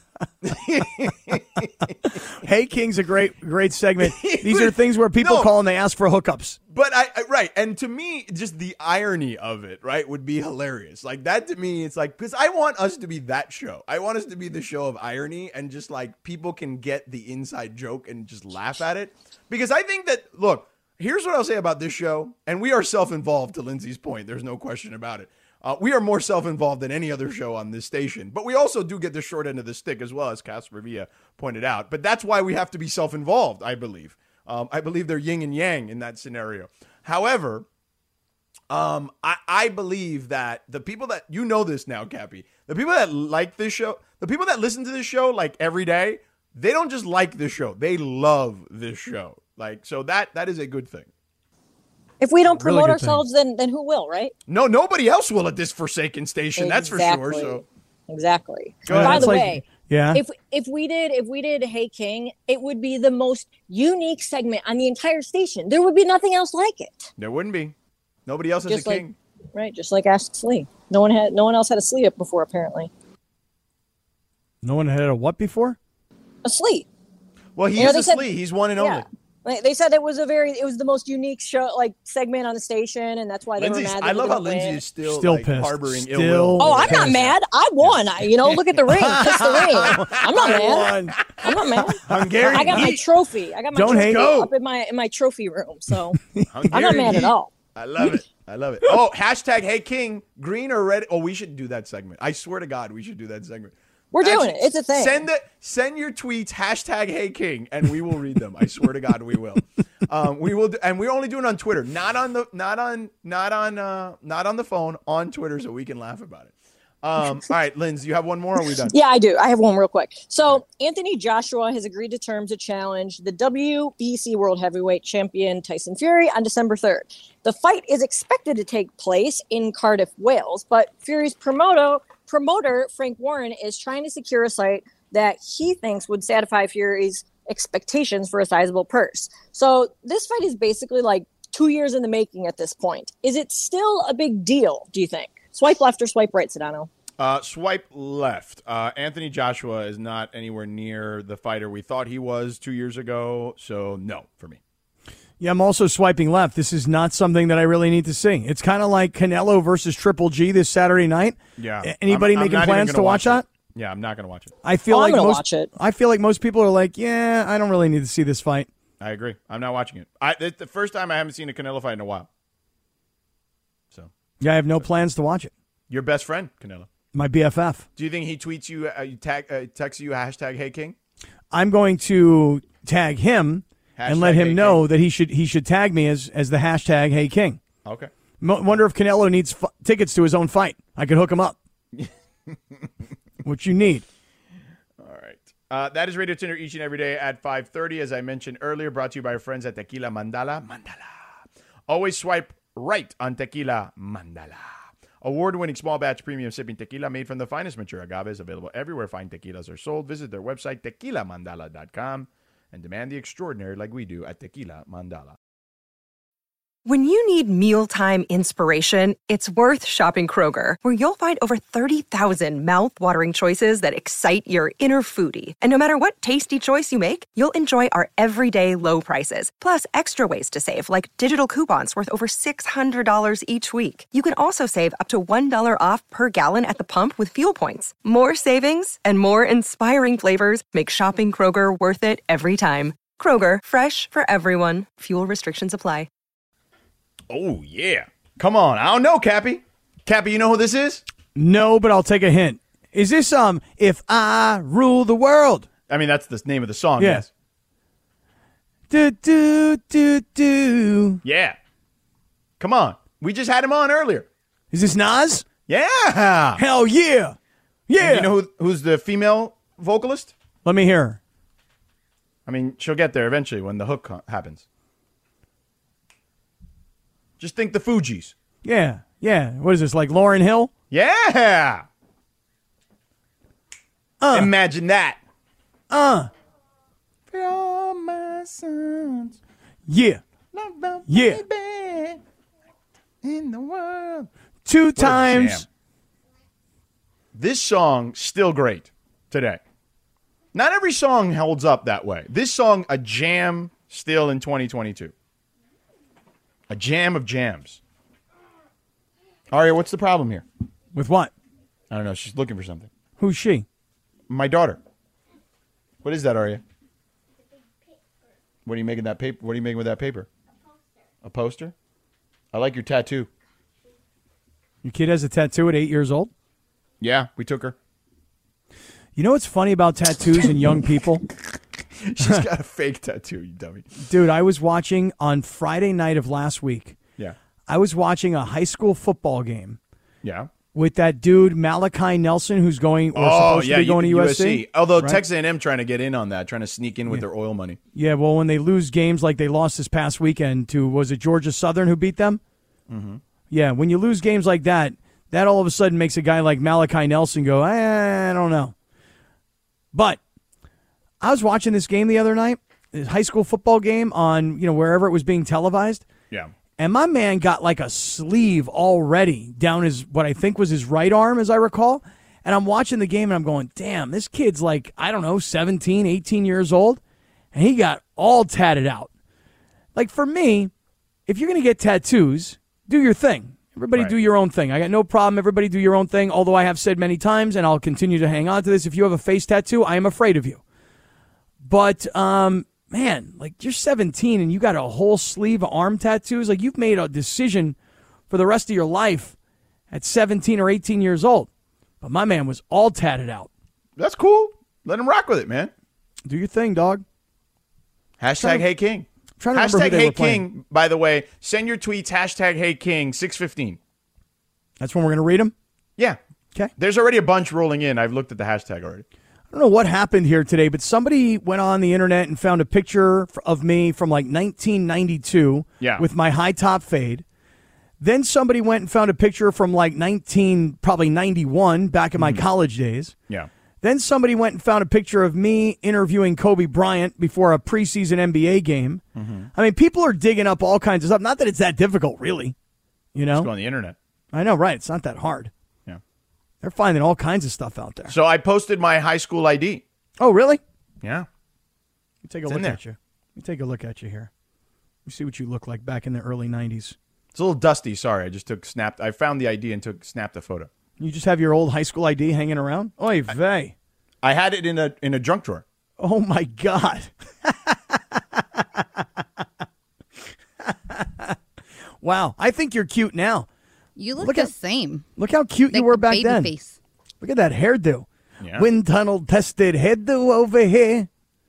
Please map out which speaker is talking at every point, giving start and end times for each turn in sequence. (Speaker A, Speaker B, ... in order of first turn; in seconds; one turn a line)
Speaker A: 0.4-2.1
Speaker B: 2.4-6.6
Speaker A: 4.0-5.5
Speaker A: 6.7-37.6
Speaker A: 38.7-51.1
Speaker C: 52.2-54.3
Speaker B: 52.5-53.2
Speaker A: 54.5-57.6
Speaker C: 56.6-67.1
Speaker A: 58.9-59.5
Speaker B: 58.9-60.2
Speaker A: 67.2-67.7
Speaker A: 68.2-69.2
Speaker C: 68.7-72.9
Speaker B: 74.6-75.8
Speaker C: 76.4-76.8
Speaker A: 77.5-79.0
Speaker C: 77.8-84.8
Speaker A: 83.6-93.0
Speaker B: 85.0-87.2
Speaker C: 86.6-97.5
Speaker B: 88.9-91.2
Speaker B: 92.1-92.9
Speaker B: 93.7-94.3
Speaker A: 93.8-94.5
Speaker B: 96.3-96.6
Speaker A: 96.5-118.9
Speaker C: 104.1-105.2
Speaker C: 118.8-146.9
Speaker A: 147.2-154.6
Speaker B: 155.4-163.4
Speaker A: 161.6-164.5
Speaker B: 164.6-168.7
Speaker C: 164.9-165.7
Speaker A: 169.0-172.3
Speaker B: 174.4-175.5
Speaker A: 175.9-176.9
Speaker B: 177.1-177.8
Speaker A: 177.9-180.9
Speaker B: 181.5-187.6
Speaker A: 184.0-184.8
Speaker A: 187.8-188.1
Speaker B: 188.4-191.6
Speaker A: 191.9-192.6
Speaker B: 193.4-194.0
Speaker A: 195.0-201.2
Speaker A: 201.9-215.3
Speaker D: 216.8-246.1
Speaker A: 247.3-251.0
Speaker B: 251.3-255.7
Speaker A: 255.9-257.3
Speaker B: 257.0-257.2
Speaker B: 258.9-261.2
Speaker A: 261.2-261.6
Speaker A: 262.6-264.2
Speaker B: 264.7-265.4
Speaker A: 265.7-266.6
Speaker B: 266.6-267.4
Speaker B: 267.9-268.3
Speaker A: 268.0-270.3
Speaker B: 270.6-271.2
Speaker A: 272.5-274.6
Speaker A: 277.4-278.3
Speaker B: 278.6-280.7
Speaker A: 280.9-281.8
Speaker B: 284.2-284.5
Speaker A: 284.3-285.2
Speaker B: 285.9-286.3
Speaker A: 287.3-289.4
Speaker B: 289.9-290.2
Speaker A: 290.5-292.2
Speaker B: 291.1-291.4
Speaker A: 293.2-294.3
Speaker B: 294.6-295.6
Speaker A: 295.0-295.6
Speaker A: 297.3-299.6
Speaker A: 300.5-305.1
Speaker A: 306.7-307.8
Speaker A: 309.5-310.4
Speaker B: 310.9-311.3
Speaker A: 311.9-312.9
Speaker B: 313.2-313.6
Speaker A: 314.3-314.8
Speaker A: 316.0-316.6
Speaker A: 318.6-320.3
Speaker A: 321.2-321.7
Speaker A: 322.5-323.3
Speaker B: 324.8-326.3
Speaker A: 327.0-327.7
Speaker B: 329.1-331.2
Speaker A: 332.0-333.9
Speaker B: 334.0-337.0
Speaker B: 337.7-339.8
Speaker A: 340.2-340.5
Speaker B: 340.7-345.2
Speaker A: 343.1-347.8
Speaker B: 347.9-352.4
Speaker A: 352.9-353.2
Speaker B: 353.5-358.7
Speaker B: 359.9-360.2
Speaker B: 361.2-366.0
Speaker B: 366.8-377.0
Speaker B: 377.5-379.1
Speaker B: 379.9-380.7
Speaker B: 381.3-390.6
Speaker B: 391.6-397.8
Speaker B: 398.3-399.3
Speaker B: 399.9-401.5
Speaker B: 402.0-403.5
Speaker A: 404.0-405.7
Speaker B: 406.2-407.0
Speaker A: 408.2-413.8
Speaker B: 408.4-408.6
Speaker B: 409.4-410.4
Speaker B: 414.8-415.5
Speaker A: 416.8-419.0
Speaker B: 419.5-427.2
Speaker A: 425.8-426.0
Speaker B: 428.0-433.1
Speaker A: 432.2-432.4
Speaker B: 433.8-439.0
Speaker A: 439.1-439.5
Speaker B: 439.5-442.5
Speaker B: 443.1-443.5
Speaker A: 443.3-443.9
Speaker B: 444.3-445.5
Speaker B: 446.6-448.1
Speaker A: 448.1-449.8
Speaker B: 450.2-450.6
Speaker A: 451.0-451.3
Speaker B: 452.2-454.3
Speaker A: 452.5-452.8
Speaker B: 455.1-456.9
Speaker A: 457.3-460.7
Speaker B: 461.0-463.7
Speaker A: 464.2-465.6
Speaker B: 466.0-469.0
Speaker B: 470.6-471.4
Speaker B: 472.0-473.5
Speaker E: 473.9-475.1
Speaker B: 474.2-474.5
Speaker B: 475.2-476.5
Speaker E: 475.7-476.7
Speaker B: 477.2-481.1
Speaker A: 478.4-478.7